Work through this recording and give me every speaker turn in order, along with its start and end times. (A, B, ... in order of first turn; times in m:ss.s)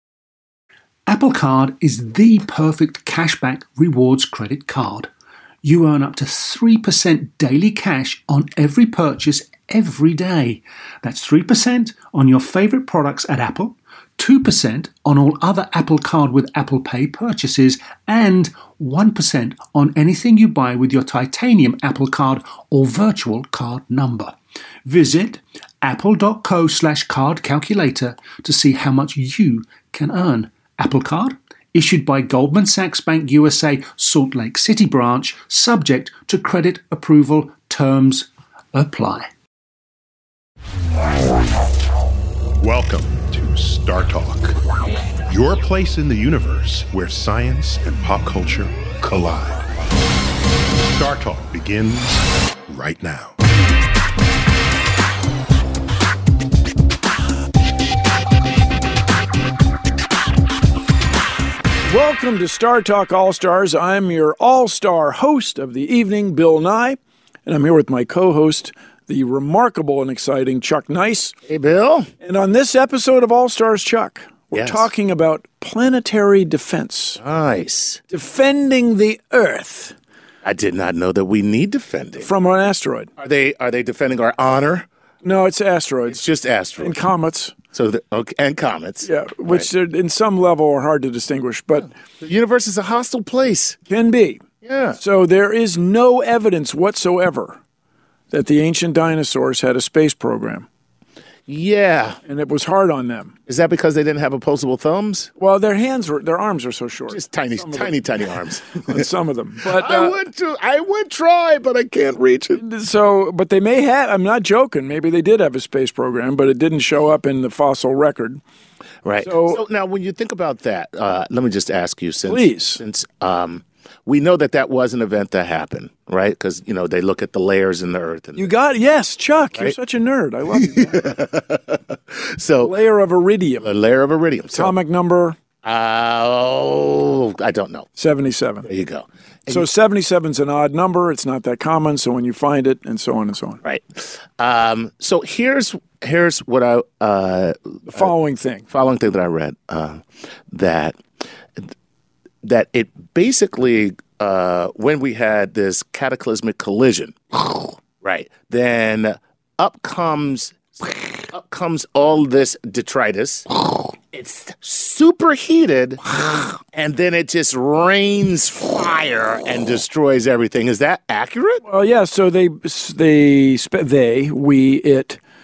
0:01.1-0:05.1 A
0:05.6-0:39.3 A
0:42.6-0:44.6 B
0:45.3-0:49.7 B
0:50.9-0:53.4 B
1:01.8-1:11.3 C
1:11.5-1:12.1 D
1:12.2-1:17.2 C
1:14.5-1:14.9 D
1:17.2-1:18.0 D
1:18.1-1:19.9 C
1:20.4-1:22.3 D
1:22.2-1:23.1 C
1:23.2-1:24.8 D
1:25.2-1:26.2 C
1:26.1-1:26.9 D
1:26.8-1:27.5 C
1:27.7-1:29.7 D
1:29.0-1:31.9 C
1:32.2-1:33.8 D
1:33.9-1:34.4 C
1:34.6-1:35.0 D
1:35.0-1:37.6 C
1:38.3-1:40.7 C
1:41.5-1:42.2 D
1:42.3-1:43.3 C
1:43.5-1:45.3 D
1:45.4-1:48.0 C
1:47.1-1:49.0 D
1:48.8-1:50.2 C
1:49.7-1:52.6 D
1:52.6-1:58.4 C
1:59.0-2:08.5 D
1:59.2-1:59.6 C
2:02.2-2:02.8 C
2:08.4-2:11.1 C
2:10.6-2:12.7 D
2:12.6-2:13.7 C
2:13.6-2:14.7 D
2:14.5-2:15.4 C
2:15.6-2:17.9 D
2:18.0-2:18.7 C
2:18.7-2:19.7 D
2:19.5-2:23.6 C
2:23.6-2:28.1 D
2:27.9-2:28.6 C
2:28.7-2:31.0 D
2:32.4-2:43.5 D
2:44.1-2:51.6 D
2:51.6-2:55.2 C